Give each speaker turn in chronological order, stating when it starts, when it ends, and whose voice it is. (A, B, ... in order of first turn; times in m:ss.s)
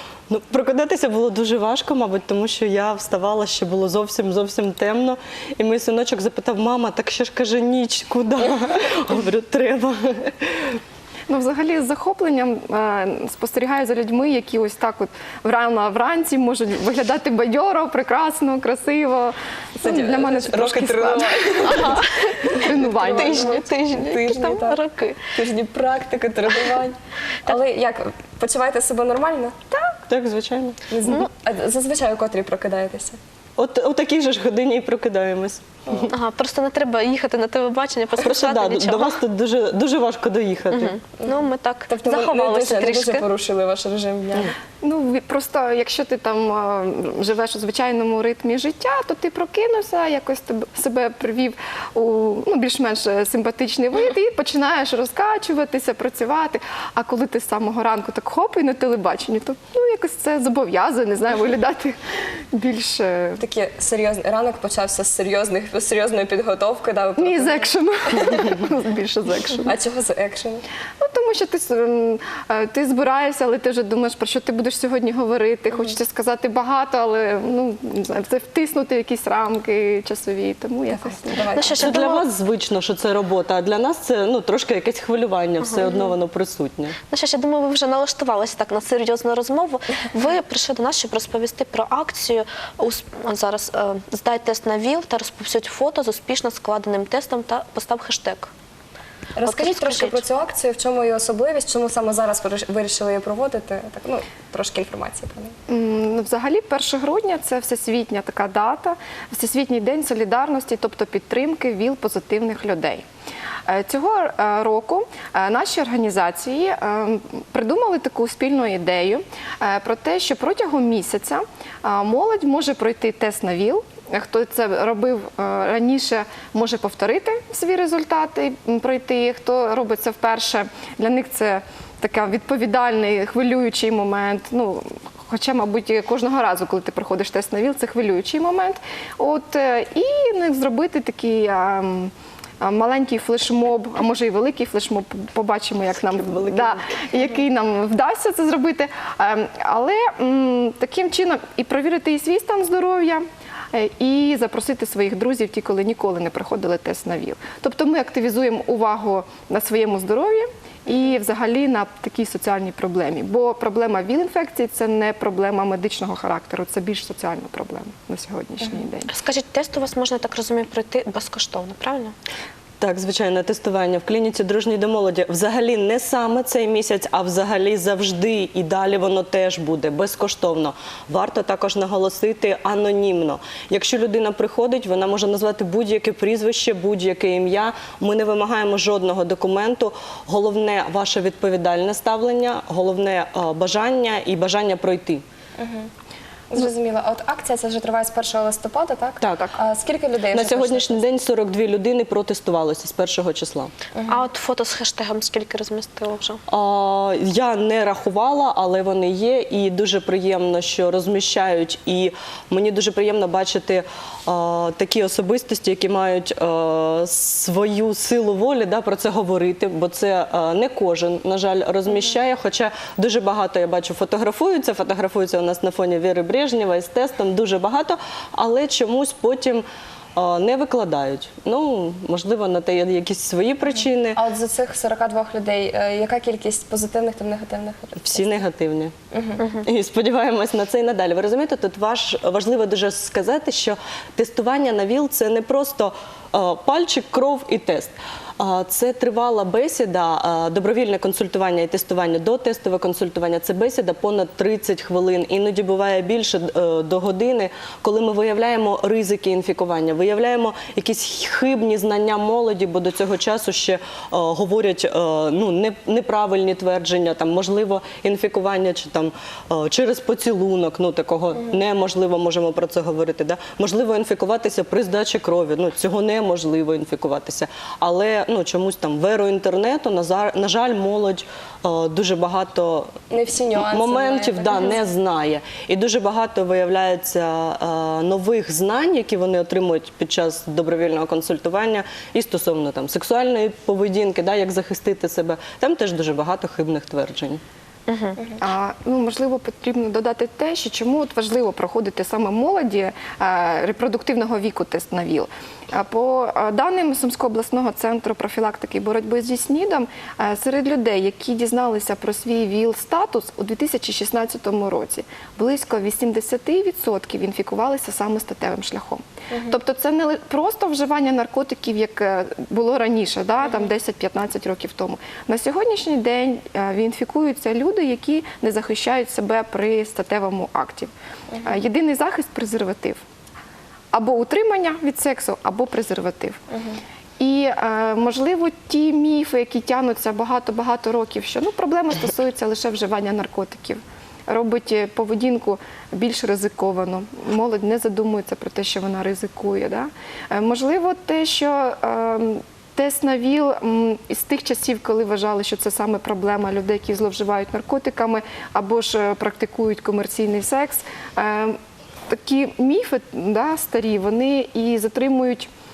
0:00.3-0:10.8 A
0:11.3-0:23.6 B
0:19.8-0:29.6 C
0:21.7-0:22.1 D
0:23.0-0:25.2 D
0:30.1-0:30.8 A
0:30.9-0:33.2 C
0:33.6-0:36.1 A
0:36.1-0:39.2 D
0:38.2-0:41.0 A
0:40.7-0:43.2 D
0:41.2-0:44.5 C
0:44.8-1:01.9 B
1:02.5-1:03.4 B
1:03.4-1:07.7 C
1:07.2-1:09.7 B
1:09.6-1:10.6 C
1:11.0-1:21.7 B
1:20.9-1:21.9 C
1:21.5-1:22.2 D
1:21.8-1:27.0 A
1:25.6-1:26.1 D
1:27.1-1:38.5 D
1:39.3-1:45.5 C
1:39.4-1:40.2 D
1:45.7-1:53.0 B
1:53.7-2:49.1 B
2:25.9-2:26.9 A
2:49.1-2:52.1 D
2:52.8-3:15.2 A
3:15.6-3:15.9 C
3:16.5-3:21.1 C
3:19.2-3:19.5 A
3:20.3-3:23.7 A
3:23.9-3:24.2 C
3:24.1-3:26.4 D
3:26.5-3:54.2 A
3:54.1-3:58.2 C
3:58.0-3:58.9 A
3:59.1-3:59.4 C
3:59.4-3:59.6 D
3:59.6-4:42.9 A
4:43.1-4:44.8 C
4:43.6-4:57.4 A
4:57.9-4:58.2 D
4:58.4-5:30.9 B
5:19.3-5:19.6 C
5:31.4-5:33.0 B
5:33.9-5:36.4 B
5:36.5-5:36.8 C
5:37.2-6:01.6 B
6:02.1-6:05.5 B